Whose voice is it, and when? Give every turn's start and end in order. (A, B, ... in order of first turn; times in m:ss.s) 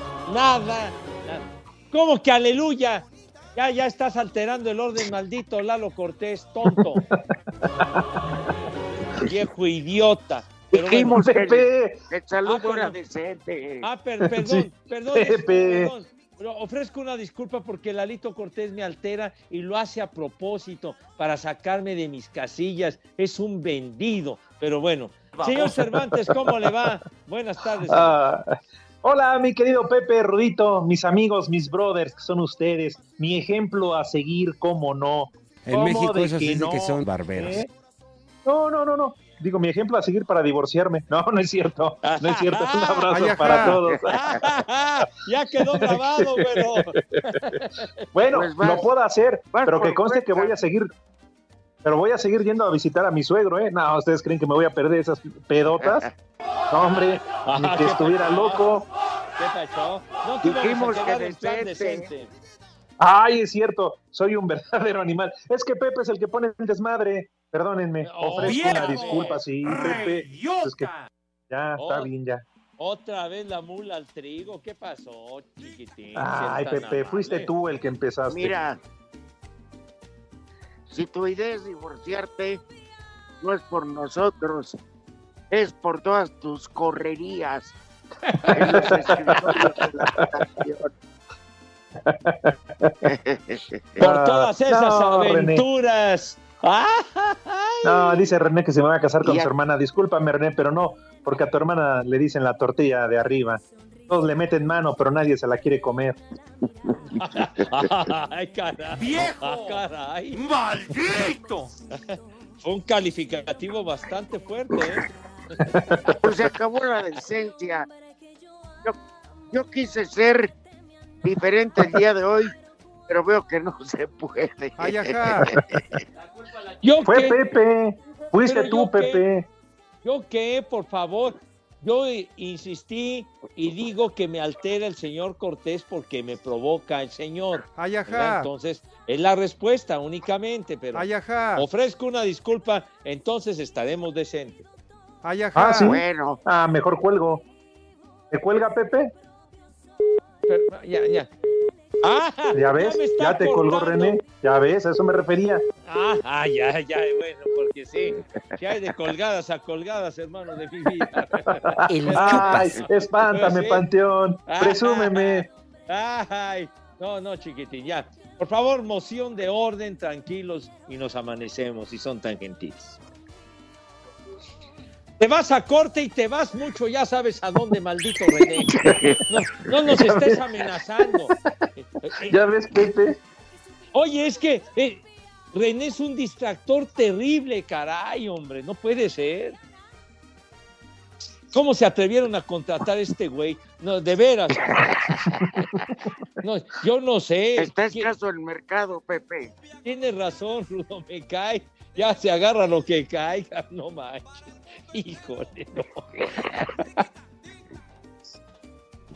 0:00.2-0:07.0 A
0:06.6-0:07.2 B
0:09.2-0:11.2 A
0:10.7-0:13.9 C
0:10.9-0:12.0 B
0:12.4-0:13.0 A
0:13.8-0:28.2 A
0:14.2-0:15.9 B
0:25.4-0:25.6 D
0:25.6-0:26.7 B
0:27.8-0:37.7 B
0:38.4-0:44.1 B
0:42.0-0:47.8 A
0:43.1-0:43.8 E
0:45.7-0:46.9 B
0:48.1-0:50.9 B
0:48.3-0:48.9 C
0:49.5-0:50.5 C
0:51.8-0:56.1 B
0:55.8-0:56.1 C
0:56.7-0:58.8 B
0:57.4-0:58.7 A
0:59.4-1:02.3 A
1:00.4-1:02.1 C
1:03.0-1:10.9 B
1:08.0-1:09.4 A
1:08.4-1:11.1 D
1:11.5-1:12.4 B
1:11.8-1:12.1 A
1:12.8-1:17.5 A
1:16.1-1:18.6 B
1:18.3-1:18.8 C
1:20.9-1:22.6 C
1:23.4-1:24.8 C
1:25.5-1:27.8 C
1:28.4-1:28.8 A
1:28.5-1:29.5 B
1:28.5-1:30.9 C
1:32.0-1:32.9 B
1:33.0-1:34.0 C
1:34.0-1:35.6 B
1:34.0-1:38.2 A
1:37.8-1:46.2 B
1:39.2-1:39.5 C
1:47.2-1:50.4 A
1:48.9-1:49.8 D
1:50.3-1:51.7 D
1:52.6-1:55.0 A
1:55.7-1:56.2 B
1:56.2-1:57.9 C
1:59.5-2:00.5 C
2:01.2-2:02.5 C
2:03.1-2:05.6 C
2:04.8-2:05.5 E
2:06.8-2:07.4 A
2:07.0-2:09.5 B
2:08.4-2:09.2 A
2:10.0-2:24.6 A
2:17.8-2:18.5 E
2:20.9-2:21.6 E
2:25.2-2:26.0 E
2:25.5-2:27.4 B
2:25.8-2:26.4 C
2:28.3-2:29.1 B
2:30.5-2:31.3 A
2:32.0-2:34.2 A
2:32.5-2:35.6 B
2:35.8-2:43.8 A
2:41.6-2:45.5 B
2:44.5-2:53.0 A
2:55.2-2:58.7 A
2:58.6-2:59.2 C
2:59.3-3:02.4 A
2:59.9-3:00.4 B
3:02.3-3:03.2 B
3:03.9-3:05.0 A
3:05.5-3:09.6 A
3:11.5-3:14.9 A
3:16.4-3:18.1 A
3:17.6-3:19.5 C
3:19.8-3:26.1 A